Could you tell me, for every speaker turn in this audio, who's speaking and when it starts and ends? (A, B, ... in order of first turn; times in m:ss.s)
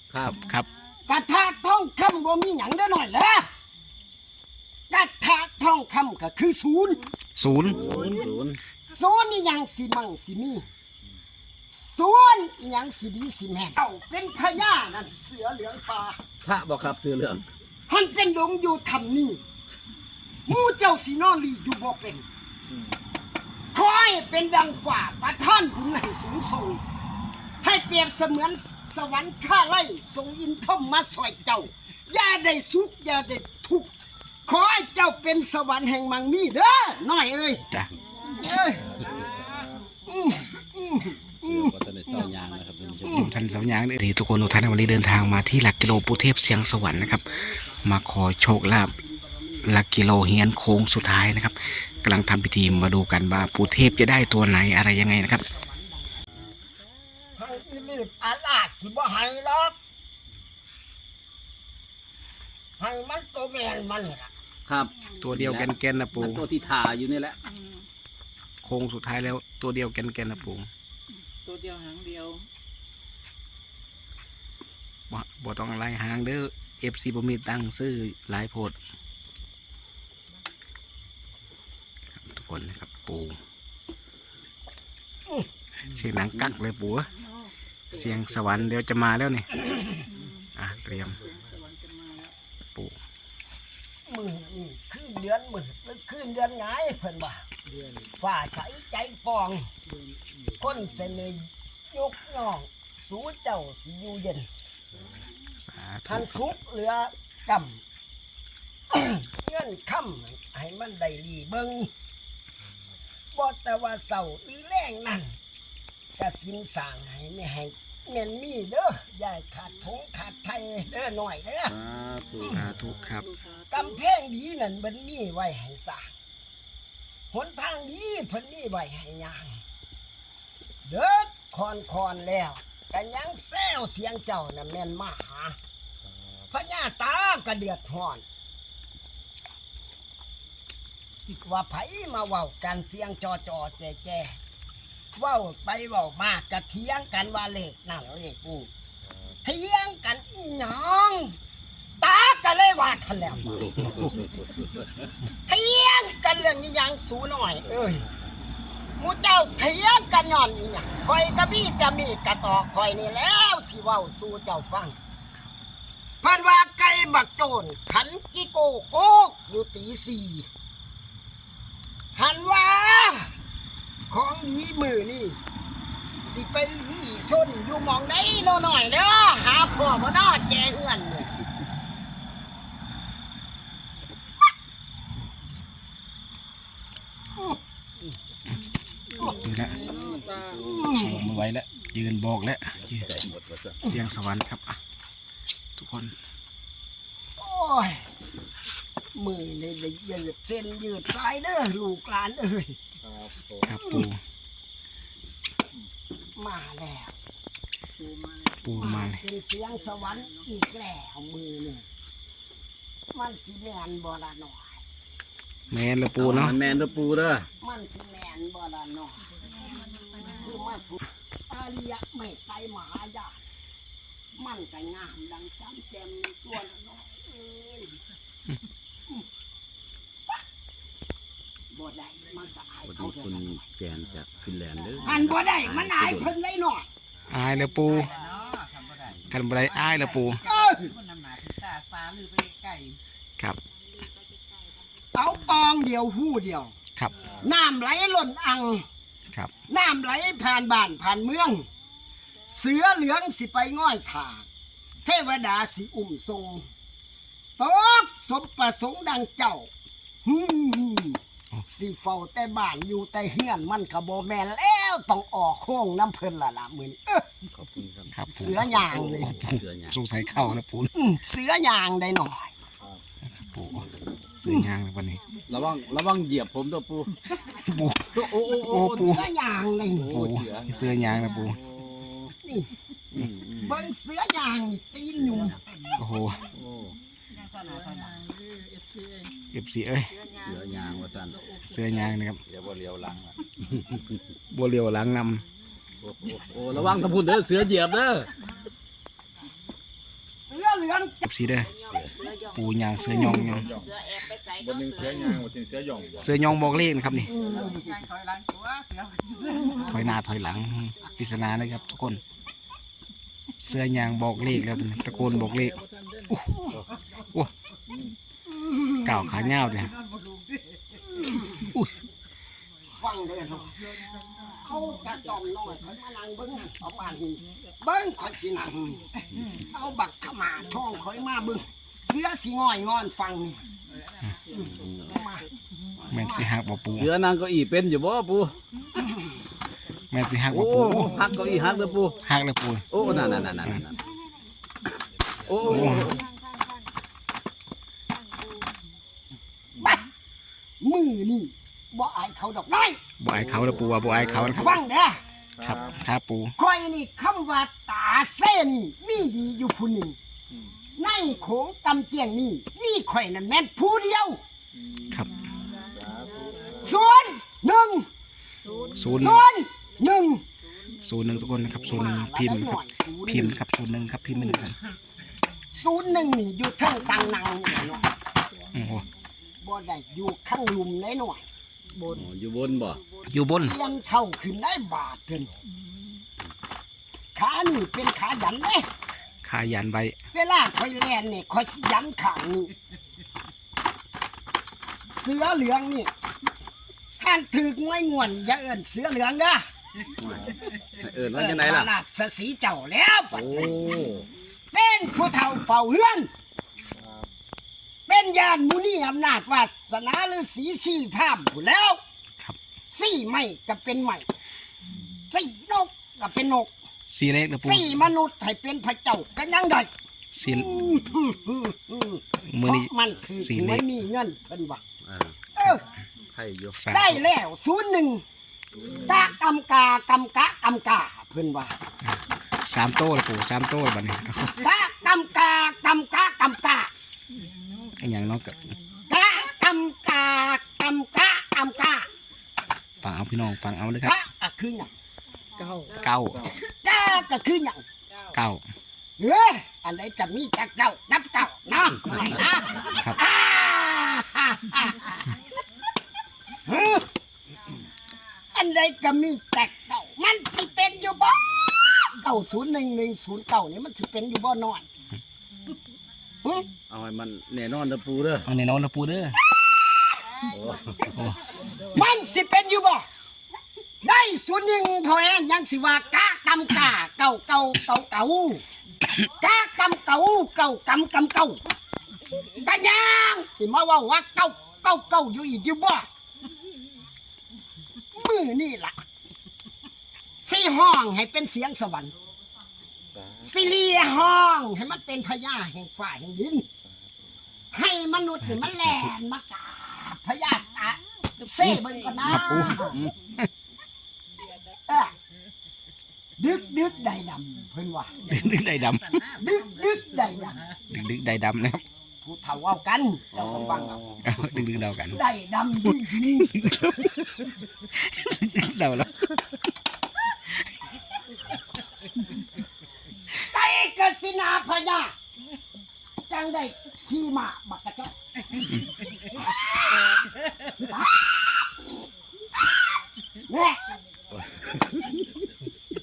0:00.1-0:00.4 A
0:00.2-0:00.7 B
0:01.1-0:03.5 C
0:04.9-0:07.0 C
0:07.4-0:07.8 B
0:07.6-0:08.6 A
0:07.7-0:08.2 C
0:08.9-0:10.6 C
0:11.7-0:16.2 C
0:16.4-0:17.5 A
0:17.9-0:19.4 C
0:20.5-0:22.2 C
0:23.7-0:26.8 C
0:27.6-0:33.9 C
0:34.5-0:37.7 C
0:38.3-0:42.3 C
0:41.4-0:43.3 A
0:43.0-0:43.3 C
0:43.2-0:48.9 B
0:49.0-0:49.7 C
0:49.6-0:55.5 B
0:55.0-0:56.1 C
0:57.4-0:59.8 C
1:02.8-1:04.3 C
1:04.7-1:07.4 A
1:05.2-1:06.4 B
1:08.6-1:10.7 B
1:11.5-1:12.4 D
1:15.1-1:18.8 B
1:22.2-1:23.4 B
1:25.9-1:27.1 B
1:27.9-1:29.7 B
1:30.6-1:31.2 B
1:31.4-1:32.3 D
1:34.1-1:37.5 C
1:38.2-1:39.7 C
1:40.6-1:44.5 C
1:45.6-1:46.5 B
1:46.1-1:47.8 C
1:48.9-1:51.9 C
1:53.3-1:55.4 C
1:56.2-2:01.7 C
2:01.7-2:02.7 A
2:02.5-2:03.3 B
2:03.7-2:06.1 C
2:07.3-2:09.6 C
2:10.9-2:15.6 C
2:16.5-2:18.2 C
2:21.4-2:24.4 C
2:25.2-2:28.7 C
2:29.4-2:31.3 C
2:32.0-2:33.9 C
2:33.5-2:34.8 A
2:35.5-2:38.1 C
2:39.0-2:45.0 C
2:46.2-2:50.5 C
2:52.2-2:53.3 C
2:54.1-2:55.4 C
2:56.2-3:01.3 C
3:09.2-3:09.9 B
3:09.8-3:10.9 A
3:10.6-3:11.2 C
3:10.9-3:13.3 B
3:12.8-3:13.8 A
3:13.8-3:14.8 B
3:15.8-3:16.2 B
3:17.4-3:18.0 C
3:19.2-3:22.8 C
3:23.0-3:23.7 E
3:23.6-3:24.2 B
3:23.7-3:24.0 C
3:26.4-3:27.1 C
3:28.0-3:28.6 D
3:28.6-3:29.2 B
3:28.8-3:31.8 C
3:33.1-3:34.8 C
3:35.7-3:36.6 B
3:36.2-3:37.5 A
3:37.6-3:39.2 C
3:40.2-3:43.4 C
3:44.4-3:48.0 C
3:51.7-3:53.6 C
3:52.9-3:56.3 A
3:55.0-3:56.9 C
3:57.3-3:58.1 B
3:58.0-3:58.3 D
3:58.4-3:59.3 A
3:59.3-4:00.4 B
4:00.4-4:00.9 C
4:00.9-4:03.0 A
4:05.1-4:06.7 C
4:07.4-4:08.8 C
4:09.7-4:11.7 C
4:12.5-4:14.4 C
4:15.0-4:16.7 C
4:17.6-4:19.7 C
4:20.2-4:27.3 C
4:27.5-4:30.0 A
4:28.1-4:30.9 B
4:28.3-4:29.4 C
4:30.9-4:32.5 C
4:33.4-4:33.9 B
4:34.4-4:35.2 B
4:34.4-4:34.7 C
4:35.5-4:37.2 A
4:37.5-4:39.3 B
4:38.1-4:39.2 A
4:39.0-4:40.1 C
4:39.9-4:42.3 A
4:40.1-4:41.6 B
4:42.4-4:42.7 C
4:43.1-4:43.8 A
4:43.6-4:45.6 C
4:45.2-4:45.6 A
4:46.0-4:46.4 B
4:46.5-4:48.3 A
4:48.4-4:49.3 D
4:49.5-4:50.2 B
4:50.4-4:51.4 A
4:51.6-4:52.4 B
4:52.5-4:54.1 A
4:54.5-4:55.4 B
4:56.0-4:58.3 A
5:00.5-5:01.3 C
5:01.2-5:01.8 B
5:01.8-5:02.2 A
5:02.4-5:03.8 B
5:03.0-5:03.4 C
5:03.4-5:06.6 E
5:06.2-5:07.3 B
5:07.3-5:07.8 C
5:07.5-5:09.8 D
5:09.8-5:12.2 B
5:13.6-5:16.6 B
5:15.1-5:16.9 A
5:18.5-5:19.2 C
5:19.0-5:20.0 B
5:21.2-5:21.7 C
5:21.6-5:21.9 B
5:23.0-5:23.9 C
5:24.5-5:33.6 C
5:34.5-5:35.5 C
5:34.6-5:35.2 A
5:36.1-5:37.1 B
5:36.1-5:36.5 C
5:36.9-5:38.6 A
5:40.1-5:41.4 B
5:40.5-5:42.2 A
5:42.2-5:42.9 B
5:42.9-5:44.0 A
5:45.4-5:46.2 A
5:45.6-5:46.2 B
5:49.8-5:50.1 C
5:50.8-5:53.0 C
5:53.2-5:54.8 B
5:53.3-5:54.5 A
5:54.3-5:54.6 E
5:54.5-5:55.2 C
5:55.6-5:56.0 E
5:55.6-5:56.5 B
5:56.6-6:00.2 C
6:01.0-6:04.4 C
6:04.8-6:05.1 E
6:05.8-6:06.9 E
6:06.8-6:08.1 C
6:09.0-6:09.5 B
6:09.2-6:10.4 C
6:11.0-6:14.8 B
6:11.8-6:13.6 C
6:15.7-6:18.1 C
6:18.8-6:19.1 B
6:19.6-6:21.4 C
6:22.0-6:23.0 A
6:23.3-6:23.8 B
6:23.6-6:25.5 C
6:27.4-6:28.9 C
6:29.4-6:30.2 B
6:30.3-6:32.7 C
6:35.1-6:36.1 C
6:37.2-6:39.6 C
6:40.2-6:41.9 A
6:40.3-6:40.6 E
6:41.3-6:43.9 C
6:43.3-6:44.3 A
6:44.7-6:46.3 C
6:46.9-6:47.3 E
6:48.1-6:52.0 C
6:52.9-6:54.3 C
6:55.3-6:56.7 C
6:57.1-6:58.0 B
6:57.6-6:59.9 C
7:00.3-7:00.9 B
7:00.4-7:04.8 C
7:02.5-7:03.9 B
7:05.0-7:05.4 A
7:05.6-7:05.8 C
7:06.3-7:06.8 A
7:06.8-7:07.2 B
7:06.9-7:08.2 C
7:08.8-7:09.3 E
7:09.0-7:11.7 C
7:12.0-7:14.6 B
7:14.6-7:16.9 C
7:18.0-7:18.7 B
7:19.1-7:22.1 C
7:23.0-7:24.2 B
7:24.0-7:24.9 C
7:25.9-7:26.5 B
7:26.6-7:27.8 C
7:28.3-7:28.6 B
7:29.2-7:35.4 C
7:36.6-7:37.1 C
7:38.5-7:44.9 C
7:46.9-7:48.5 A
7:48.5-7:49.4 B
7:50.4-7:51.2 A
7:51.1-7:51.5 B
7:51.9-7:53.1 C
7:54.0-7:58.6 C
7:59.2-8:01.6 C
8:02.5-8:06.1 C
8:08.1-8:09.0 C
8:10.4-8:12.1 C
8:13.1-8:14.2 E
8:13.4-8:16.7 C
8:16.8-8:17.3 E
8:17.7-8:23.0 C
8:18.4-8:19.1 B
8:21.6-8:23.5 B
8:24.9-8:25.1 C
8:26.4-8:28.2 C
8:28.2-8:29.2 B
8:29.4-8:30.7 C
8:30.9-8:31.8 B
8:32.2-8:34.0 C
8:33.3-8:34.6 A
8:34.2-8:35.2 B
8:35.1-8:36.5 C
8:35.8-8:39.6 B
8:43.3-8:45.1 C
8:46.3-8:48.1 C
8:49.3-8:50.2 C
8:50.8-8:51.9 C
8:53.5-8:53.8 C
8:54.4-8:55.3 A